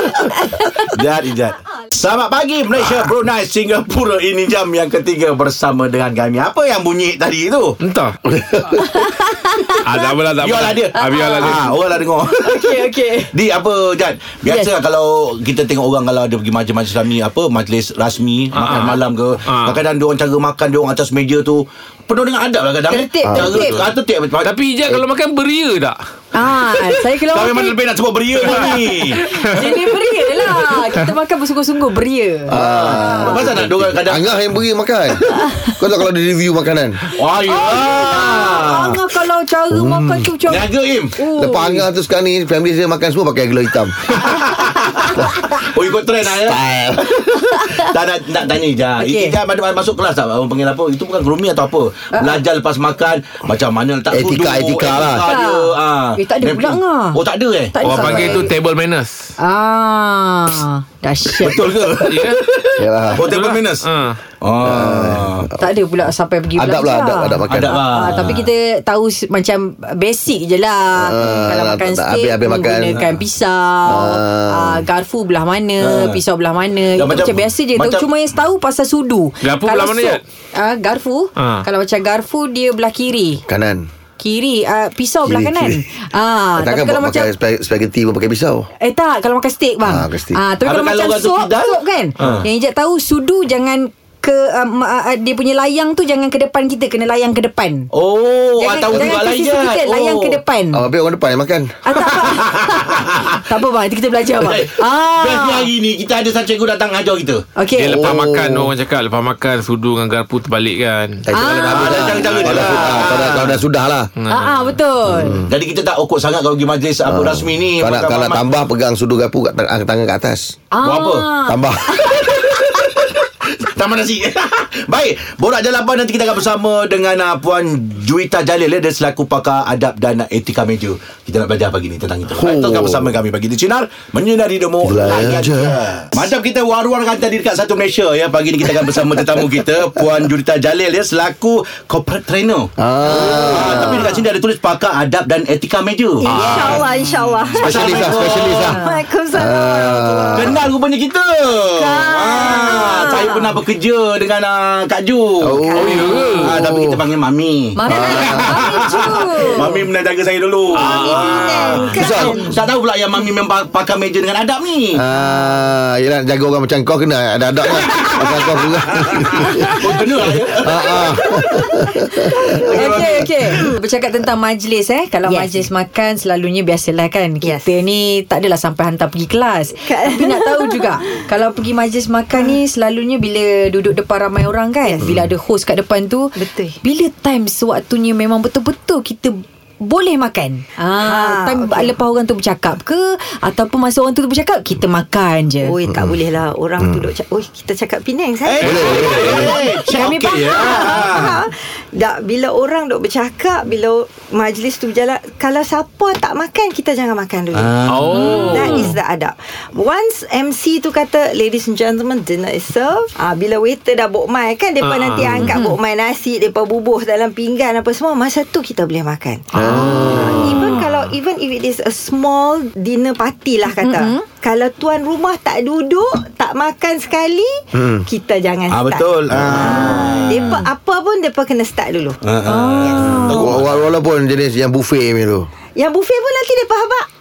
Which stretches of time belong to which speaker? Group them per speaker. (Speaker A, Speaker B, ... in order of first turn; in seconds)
Speaker A: 0.4-0.8, 8.8-9.8, 10.9-13.3, 14.4-14.7, 22.9-23.8, 26.3-27.7, 28.5-33.6, 35.3-35.7, 37.5-41.9, 47.5-47.8, 49.0-49.4, 52.1-52.4, 55.2-57.2, 57.7-58.5, 59.4-61.7, 65.6-83.4, 84.2-87.3, 88.8-97.9, 98.6-100.8, 101.8-105.7, 107.5-108.0, 111.3-112.6, 114.3-115.4, 120.7-122.2, 146.4-146.8, 152.5-153.3, 157.8-159.8, 165.1-165.7, 172.7-195.7, 199.4-201.0, 208.1-208.9, 215.4-215.8, 219.6-220.4, 223.8-224.2, 232.4-233.5
Speaker B: 0.9-7.8, 10.4-24.5, 27.2-29.2, 32.5-34.3, 37.1-39.0, 40.5-41.1, 44.2-58.5, 61.3-63.9, 64.4-65.5, 67.5-68.4, 75.8-76.2, 76.9-78.1, 90.6-92.5, 97.9-100.4, 102.1-103.4, 104.4-107.4, 111.5-113.6, 115.5-118.4, 120.8-121.3, 123.6-146.5, 147.6-148.6, 150.3-165.0, 167.8-171.3, 172.7-173.7, 198.4-201.4, 207.5-208.4, 228.7-230.6, 232.2-233.9
Speaker C: 7.8-8.2, 9.8-11.8, 18.5-19.8, 24.4-26.0, 29.2-29.9, 57.8-59.1, 62.0-62.4, 63.2-64.2, 79.4-80.2, 81.4-81.6, 107.8-111.2, 114.2-114.8, 146.3-146.9, 155.8-156.6, 160.7-161.8, 207.9-208.9, 214.8-215.5
Speaker D: 23.2-23.9, 32.5-37.0, 39.7-40.3, 41.3-44.2, 45.1-45.4, 46.2-47.1, 54.1-55.3, 62.8-63.3, 64.6-65.5, 66.5-68.5, 70.9-73.0, 73.8-74.8, 83.5-83.8, 85.2-85.8, 86.6-88.7, 89.8-90.4, 100.7-102.1, 107.9-108.7, 111.2-114.1, 115.1-115.5, 117.0-120.5, 121.4-122.8, 132.4-133.1, 134.8-136.0, 142.8-144.2, 147.6-148.8, 149.3-150.6, 155.4-157.0, 157.8-158.7, 161.9-162.5, 164.9-173.1, 195.9-196.2, 198.6-199.6, 219.5-220.7, 227.7-228.1, 229.3-229.8, 233.3-235.5
Speaker E: 146.2-150.6, 151.7-153.5, 155.6-156.4, 160.8-162.5, 172.3-172.9, 175.2-175.7, 177.4-177.7, 179.8-181.0, 186.3-186.8, 190.9-191.9, 195.6-233.2, 235.8-237.1